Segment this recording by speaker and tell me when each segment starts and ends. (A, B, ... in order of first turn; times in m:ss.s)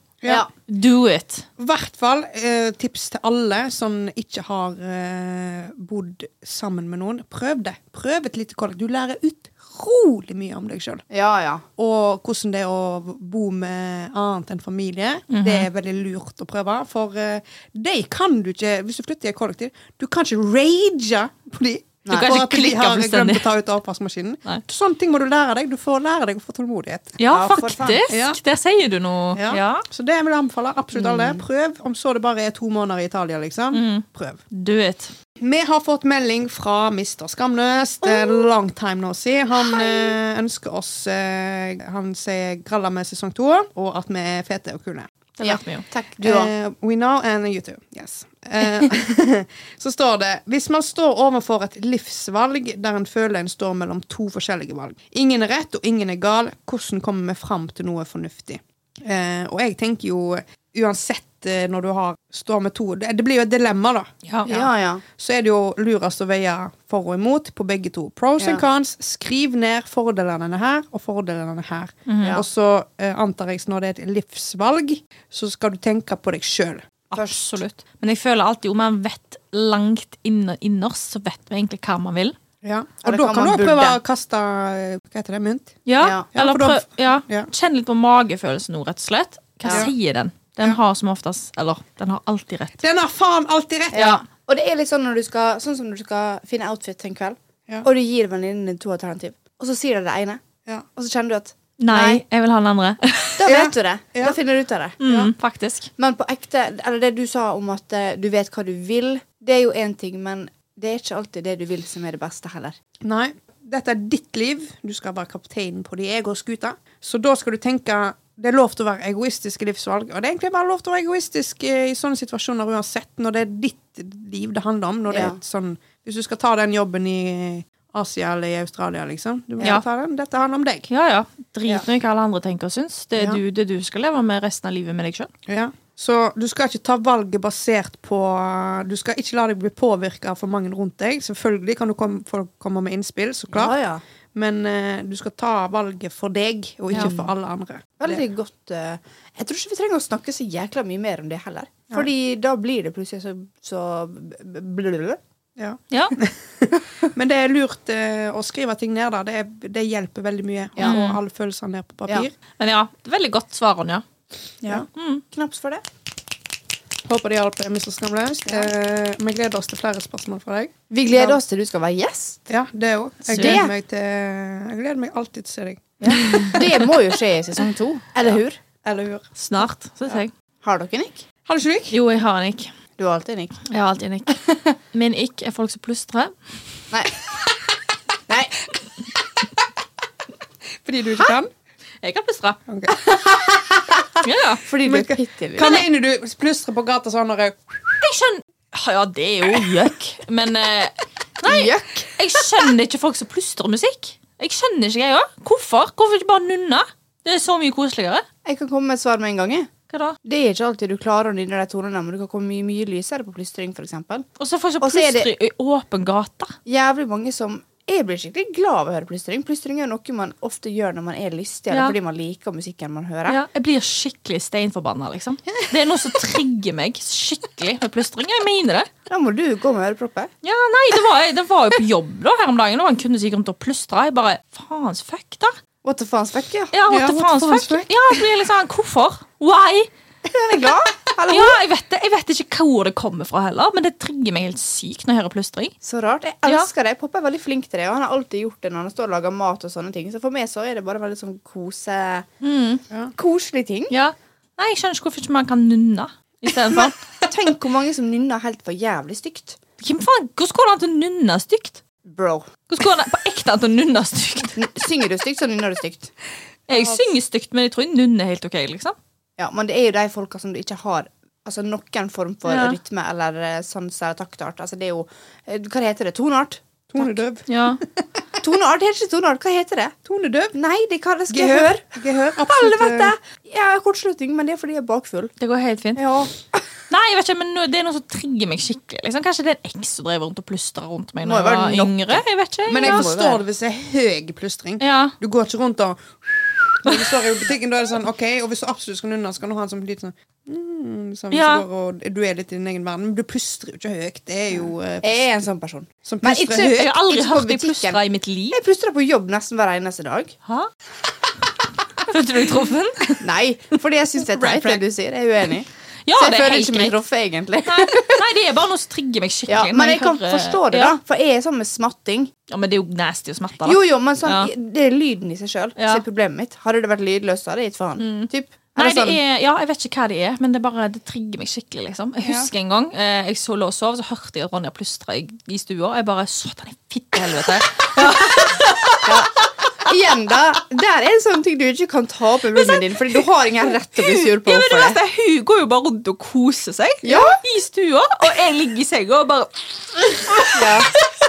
0:00.7-0:01.5 A
0:01.6-0:11.0 B
0:11.1-0:11.6 C
0:11.8-0:27.2 B
0:15.3-0:15.7 A
0:22.1-0:23.5 A
0:27.2-0:29.8 A
0:27.3-0:28.0 C
0:28.1-0:28.4 B
0:29.3-0:34.4 B
0:30.9-0:31.4 C
0:33.7-0:35.1 A
0:35.4-0:45.1 B
0:39.6-0:40.0 C
0:45.4-0:45.8 A
0:45.4-0:46.5 C
0:46.2-1:17.0 B
1:04.2-1:04.5 A
1:04.5-1:05.0 C
1:08.4-1:08.6 C
1:12.1-1:12.4 A
1:17.1-1:22.3 A
1:22.6-1:25.8 B
1:23.0-1:24.0 C
1:25.8-1:32.8 A
1:26.0-1:26.3 C
1:26.3-1:27.5 B
1:29.6-1:29.9 C
1:32.8-1:34.0 B
1:33.9-1:40.4 C
1:33.9-1:34.2 A
1:40.9-1:42.2 C
1:41.8-1:43.4 A
1:43.4-1:45.0 C
1:43.4-1:44.4 B
1:45.0-1:45.3 B
1:45.0-1:45.9 A
1:46.0-1:52.8 C
1:53.0-2:10.9 B
2:05.1-2:05.4 C
2:10.9-2:15.3 A
2:15.5-2:23.7 B
2:23.5-2:24.0 C
2:24.3-2:28.2 B
2:26.9-2:27.3 C
2:28.0-2:35.2 C
2:35.6-2:42.3 B
2:35.9-2:36.2 A
2:36.8-2:37.1 C
2:40.8-2:41.2 A
2:42.6-2:44.0 A
2:44.6-2:45.8 C
2:44.9-2:45.2 A
2:47.0-2:51.4 B
2:50.9-2:52.4 C
2:52.5-2:56.5 B
2:53.2-2:53.7 C
2:53.3-2:53.6 A
2:56.0-2:58.6 C
2:56.1-2:56.6 A
2:58.8-2:59.3 B
2:59.4-3:00.3 A
3:00.1-3:01.2 C
3:01.4-3:02.0 B
3:01.9-3:02.7 A
3:03.0-3:03.6 C
3:03.7-3:06.8 A
3:08.3-3:08.6 C
3:10.8-3:11.5 B
3:12.0-3:12.6 A
3:12.7-3:12.9 B
3:13.1-3:14.0 C
3:14.2-3:14.6 A
3:14.6-3:15.8 C
3:14.8-3:18.0 B
3:18.0-3:28.2 A
3:21.4-3:22.1 C
3:28.4-3:29.7 C
3:29.9-3:30.2 A
3:30.2-3:34.3 C
3:34.4-3:36.5 A
3:34.8-3:35.3 C
3:36.6-3:43.4 C
3:41.7-3:42.0 A
3:43.3-3:48.9 A
3:49.1-3:50.3 C
3:50.4-3:55.5 A
3:55.8-3:56.7 C
3:56.7-3:59.9 A
3:56.9-3:58.2 B
4:00.2-4:01.6 C
4:01.3-4:05.7 A
4:05.8-4:12.3 C
4:12.4-4:12.8 A
4:13.2-4:13.9 C
4:13.9-4:16.9 A
4:16.7-4:19.6 C
4:19.8-4:21.8 A
4:22.0-4:22.5 C
4:22.7-4:24.6 A
4:24.6-4:26.1 C
4:26.7-4:29.0 A
4:26.7-4:27.0 C
4:29.4-4:37.2 C
4:32.4-4:32.8 A
4:36.9-4:38.2 B
4:37.5-4:37.8 A
4:38.4-4:39.9 C
4:40.0-4:40.5 B
4:40.5-4:45.3 C
4:41.3-4:43.1 B
4:45.4-4:46.0 A
4:46.0-4:46.7 C
4:46.9-4:53.1 A
4:51.2-4:52.2 C
4:52.7-5:05.2 B
4:52.8-4:53.4 C
4:54.8-4:55.1 A
5:01.3-5:01.6 A
5:05.0-5:08.0 C
5:06.0-5:06.9 B
5:06.7-5:08.6 A
5:08.5-5:10.3 C
5:12.0-5:13.2 A
5:13.2-5:18.2 C
5:14.4-5:14.8 B
5:16.0-5:17.0 A
5:17.6-5:21.0 A
5:19.5-5:22.3 C
5:22.5-5:24.5 A
5:23.6-5:29.2 C
5:25.8-5:26.0 A
5:28.0-5:39.2 A
5:32.2-5:32.5 C
5:39.0-5:45.0 C
5:44.0-5:50.8 A
5:47.0-5:47.4 C
5:50.4-5:50.9 C